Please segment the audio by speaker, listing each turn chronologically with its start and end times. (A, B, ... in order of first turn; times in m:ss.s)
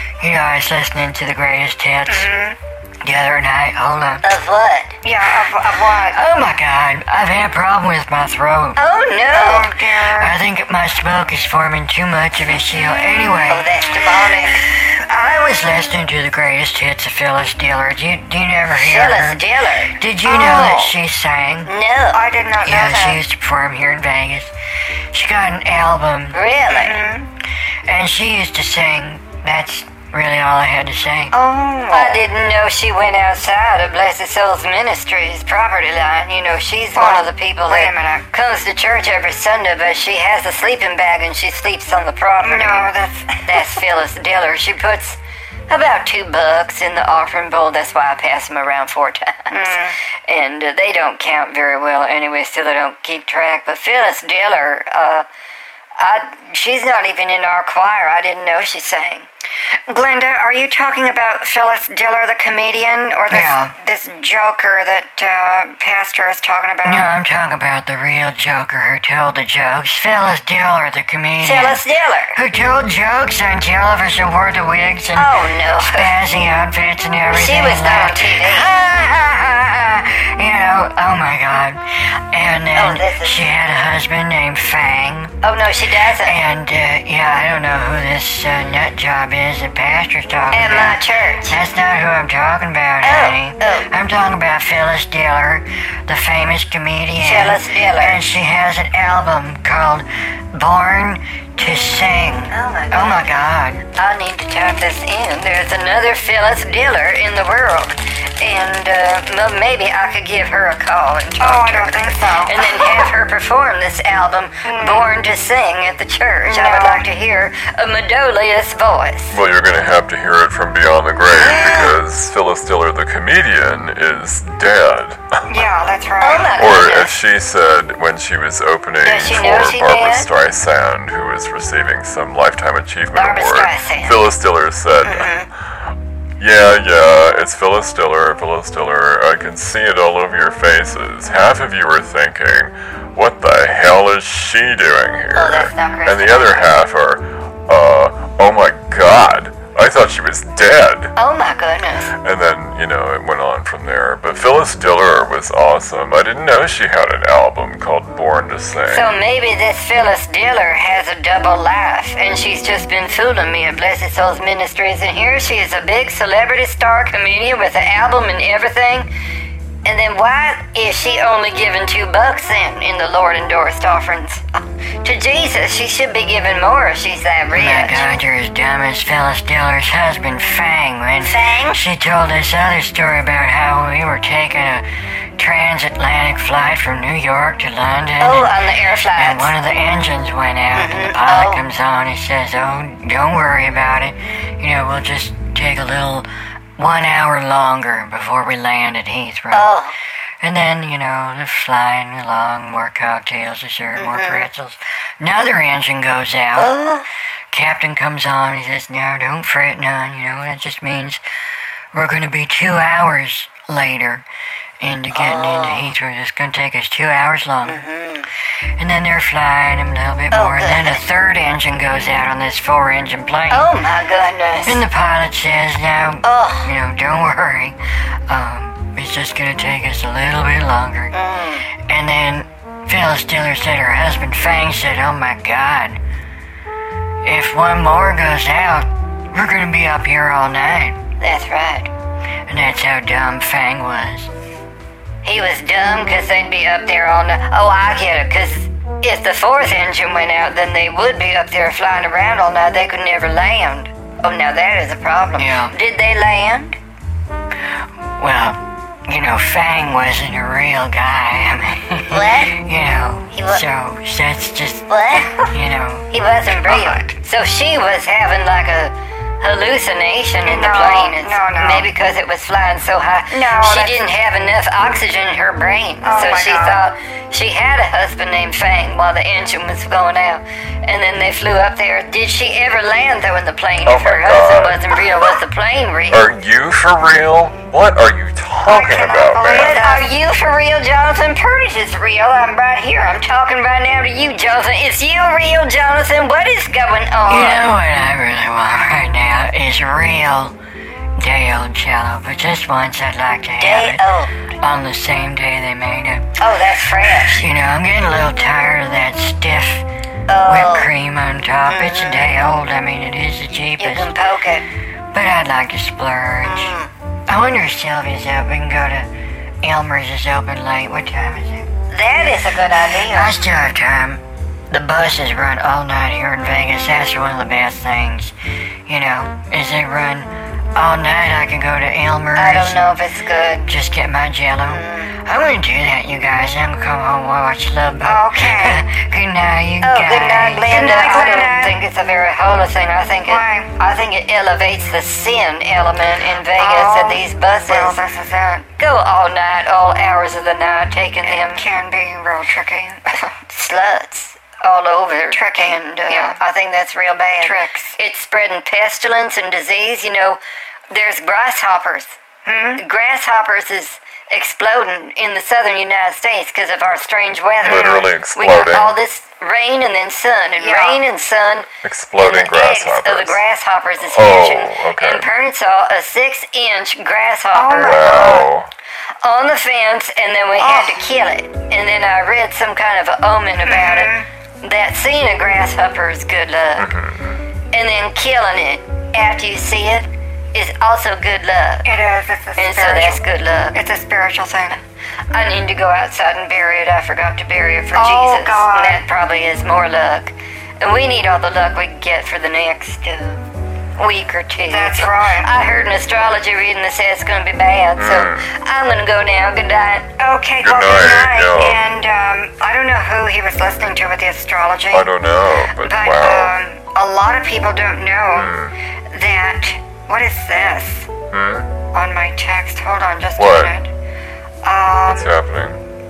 0:00.2-0:02.3 A
0:02.1-0:02.6 B
0:03.0-0:04.4 A
0:04.2-0:04.9 C
0:05.0-0:06.3 B
0:06.1-0:08.8 A
0:08.8-0:09.7 C
0:09.3-0:10.4 B
0:10.2-0:13.8 A
0:12.8-0:15.9 B
0:13.5-0:14.6 C
0:15.1-0:19.4 A
0:18.7-0:20.0 C
0:19.9-0:21.8 A
0:20.2-0:20.9 B
0:21.6-0:22.2 C
0:22.1-0:23.2 B
0:22.6-0:24.5 A
0:25.1-0:26.5 A
0:26.3-0:27.2 C
0:26.7-0:27.3 B
0:27.8-0:31.4 A
0:31.3-0:32.3 B
0:31.9-0:42.8 C
0:36.9-0:38.3 B
0:42.4-0:43.8 B
0:43.4-0:55.2 C
0:49.5-0:50.0 B
0:56.0-0:59.2 C
0:59.9-1:07.1 B
1:03.3-1:03.7 A
1:06.8-1:11.8 A
1:11.4-1:12.4 C
1:12.3-1:25.4 A
1:15.1-1:16.1 C
1:17.3-1:18.7 C
1:22.7-1:23.4 C
1:25.4-1:26.4 C
1:26.2-1:43.8 A
1:30.5-1:31.6 C
1:33.0-1:33.9 C
1:37.2-1:38.2 C
1:42.5-1:43.3 C
1:43.8-1:59.4 C
1:51.4-1:53.1 B
1:54.6-1:55.1 B
1:56.4-1:57.1 B
1:59.3-2:05.5 D
2:01.4-2:02.0 C
2:05.5-2:06.6 B
2:06.2-2:07.2 C
2:06.5-2:15.5 D
2:09.0-2:10.3 C
2:13.1-2:14.3 C
2:15.0-2:15.5 C
2:16.4-2:31.1 D
2:25.3-2:26.7 C
2:31.1-2:32.1 C
2:32.2-2:39.2 D
2:38.8-2:49.1 C
2:49.8-2:58.1 C
2:57.5-3:19.8 A
3:01.2-3:01.8 C
3:08.2-3:09.5 C
3:10.7-3:11.6 C
3:19.5-3:20.0 C
3:20.4-3:26.8 A
3:24.0-3:24.5 C
3:26.6-3:27.1 C
3:27.5-3:31.2 A
3:31.9-3:34.2 A
3:34.8-3:37.8 A
3:35.1-3:35.9 C
3:37.6-3:38.3 C
3:38.6-3:43.7 A
3:40.3-3:41.1 C
3:43.5-3:44.8 C
3:44.6-3:56.0 A
3:46.2-3:46.7 C
3:51.1-3:51.7 C
3:57.2-4:01.0 A
4:01.2-4:01.9 C
4:02.5-4:04.3 A
4:05.2-4:16.8 C
4:15.4-4:15.7 A
4:18.2-4:26.1 A
4:22.1-4:22.6 C
4:23.3-4:23.6 C
4:24.9-4:25.5 C
4:26.1-4:46.3 C
4:26.5-4:27.2 B
4:30.4-4:31.9 B
4:33.3-4:34.1 B
4:36.0-4:36.8 B
4:43.8-4:45.1 D
4:46.1-4:49.9 D
4:48.6-4:50.1 B
4:49.4-4:57.7 C
4:57.3-5:00.6 A
5:01.2-5:06.3 A
5:03.6-5:04.5 C
5:06.4-5:07.4 C
5:07.2-5:09.9 A
5:10.3-5:10.9 C
5:10.4-5:14.1 A
5:11.6-5:12.4 C
5:13.8-5:14.6 C
5:15.1-5:19.1 A
5:16.4-5:16.9 C
5:19.6-5:21.7 A
5:21.9-5:23.4 C
5:23.0-5:32.9 A
5:32.4-5:33.7 C
5:33.6-5:40.8 A
5:34.7-5:35.1 C
5:38.0-5:38.8 B
5:39.8-5:48.0 C
5:40.6-5:41.8 B
5:43.2-5:43.7 B
5:46.5-5:48.7 B
5:48.8-5:51.6 C
5:51.2-5:53.2 B
5:53.1-6:00.4 C
5:55.3-5:56.4 B
5:57.4-5:58.0 B
6:00.9-6:02.2 C
6:02.4-6:02.8 B
6:02.8-6:18.4 C
6:07.6-6:08.1 B
6:07.6-6:09.0 D
6:10.6-6:11.0 B
6:11.8-6:13.4 D
6:14.1-6:15.3 D
6:17.5-6:18.5 B
6:17.8-6:18.7 D
6:19.2-6:26.9 C
6:20.6-6:21.1 B
6:23.6-6:24.3 B
6:26.8-6:27.4 D
6:27.7-6:31.9 C
6:31.8-6:34.8 B
6:32.6-6:33.8 C
6:35.3-6:43.4 C
6:37.9-6:39.0 B
6:44.0-6:50.1 C
6:44.7-6:45.5 B
6:48.0-6:48.5 D
6:50.2-6:55.1 B
6:50.6-6:51.9 D
6:54.9-6:56.6 D
6:55.8-6:58.6 B
6:58.3-6:58.8 D
6:59.1-7:01.1 B
7:01.3-7:01.7 D
7:01.9-7:03.9 B
7:03.4-7:03.8 D
7:04.6-7:05.3 B
7:05.0-7:05.8 D